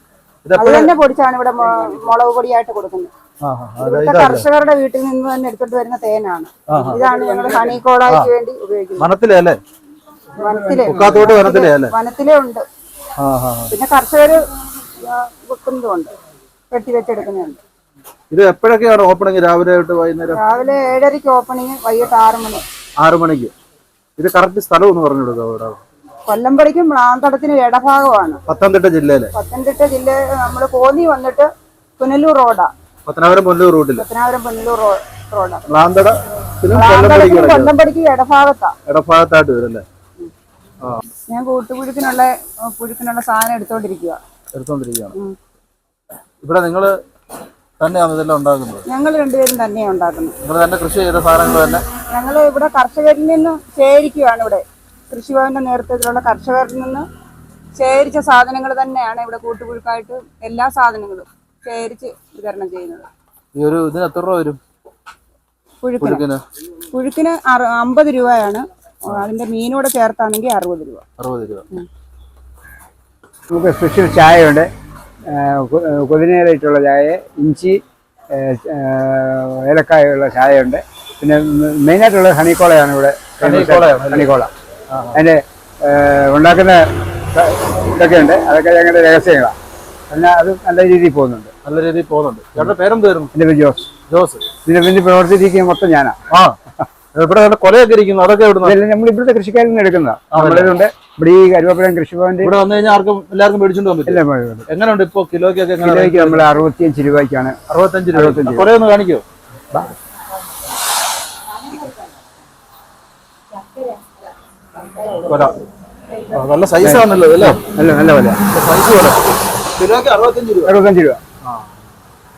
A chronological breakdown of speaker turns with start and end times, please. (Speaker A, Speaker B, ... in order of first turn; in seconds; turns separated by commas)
Speaker A: 0.5-0.9, Speaker B: 0.6-3.1, Speaker A: 3.4-4.5, Speaker B: 3.8-9.1, Speaker A: 6.7-7.0, Speaker C: 6.8-7.8, Speaker A: 9.0-9.6, Speaker B: 10.3-12.7, Speaker C: 10.4-11.3, Speaker A: 10.9-11.9, Speaker A: 13.2-13.7, Speaker B: 13.7-14.4, Speaker B: 15.0-16.1, Speaker B: 16.7-17.6, Speaker A: 18.3-20.4, Speaker B: 20.3-22.6, Speaker A: 23.0-23.5, Speaker A: 24.2-25.8, Speaker B: 26.3-28.4, Speaker A: 28.5-29.3, Speaker B: 29.3-32.7, Speaker A: 33.1-34.0, Speaker B: 34.0-35.6, Speaker A: 35.7-37.8, Speaker B: 36.7-38.8, Speaker A: 38.9-39.9, Speaker B: 41.3-44.2, Speaker A: 44.5-45.1, Speaker A: 46.4-47.0, Speaker A: 47.8-48.9, Speaker B: 48.9-50.4, Speaker A: 50.4-51.9, Speaker B: 52.0-57.1, Speaker B: 57.8-63.1, Speaker A: 63.5-64.6, Speaker B: 65.8-66.2, Speaker A: 66.0-66.4, Speaker B: 66.9-71.0, Speaker A: 71.2-71.7, Speaker C: 73.5-74.7, Speaker C: 75.2-84.5, Speaker A: 83.4-84.3, Speaker A: 84.9-85.2, Speaker C: 85.1-89.5, Speaker C: 90.1-91.5, Speaker A: 91.7-93.3, Speaker C: 93.3-93.9, Speaker A: 94.1-94.5, Speaker C: 94.7-96.2, Speaker A: 96.3-96.6, Speaker A: 97.1-98.8, Speaker C: 98.6-102.5, Speaker A: 100.3-100.8, Speaker A: 102.4-106.5, Speaker C: 104.1-104.7, Speaker C: 105.8-107.6, Speaker A: 107.7-109.2, Speaker C: 108.1-108.7, Speaker A: 115.1-115.6, Speaker A: 116.3-117.7, Speaker C: 116.8-118.5, Speaker A: 118.5-120.8, Speaker C: 120.7-121.2